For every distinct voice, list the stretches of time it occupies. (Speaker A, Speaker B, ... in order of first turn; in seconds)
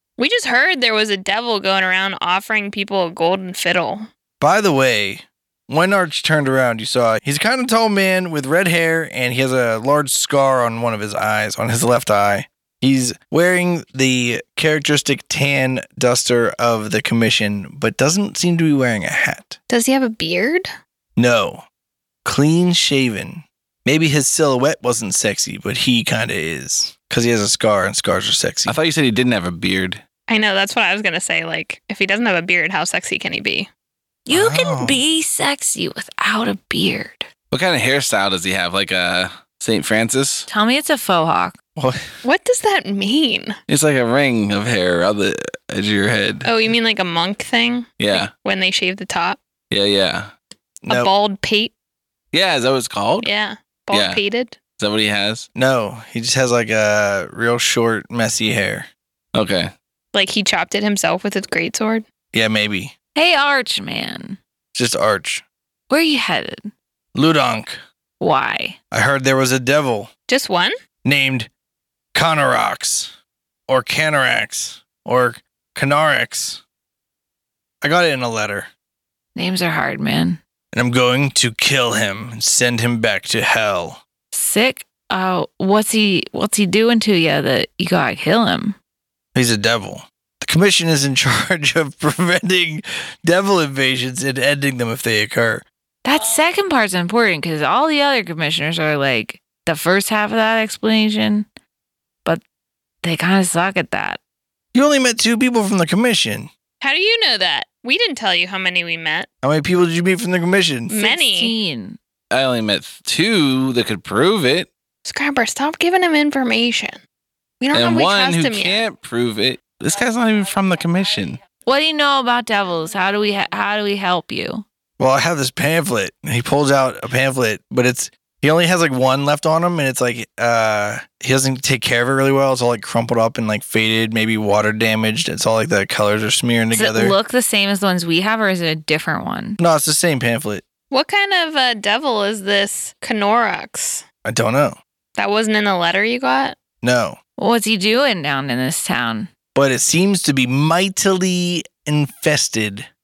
Speaker A: 0.2-4.1, 19.7-20.7, 30.3-33.7, 42.2-43.6, 46.4-49.4, 50.9-51.7, 53.2-54.6, 60.1-62.0, 70.3-70.7, 106.8-109.3, 110.9-111.5, 115.0-117.0, 117.6-118.9, 140.9-144.1, 145.2-146.6
Speaker B: 4.4-19.6, 21.2-21.6, 22.2-28.8, 34.3-35.0, 41.8-42.0, 50.8-51.1, 55.5-58.9, 62.3-62.9, 64.7-65.4, 67.1-67.8, 68.9-70.1, 71.0-71.5, 72.1-73.1, 73.7-76.6, 77.8-78.7, 80.7-84.0, 89.3-95.7, 104.7-106.5, 109.4-110.9, 125.0-137.2, 139.6-140.6, 144.2-144.8, 146.8-147.2, 149.6-152.9
Speaker C: 28.7-30.0, 37.5-40.5, 43.7-46.5, 48.0-48.3, 49.7-50.3, 52.3-53.3, 53.9-54.2, 54.8-55.5, 59.3-59.7, 112.3-114.7, 117.7-121.4
Speaker D: 34.3-37.3, 40.5-41.6, 63.1-64.4, 65.9-66.7, 68.2-68.8, 79.3-80.4, 84.3-88.8, 96.0-101.5, 103.0-104.2, 111.0-112.0, 121.7-124.6, 136.7-139.6, 147.4-149.3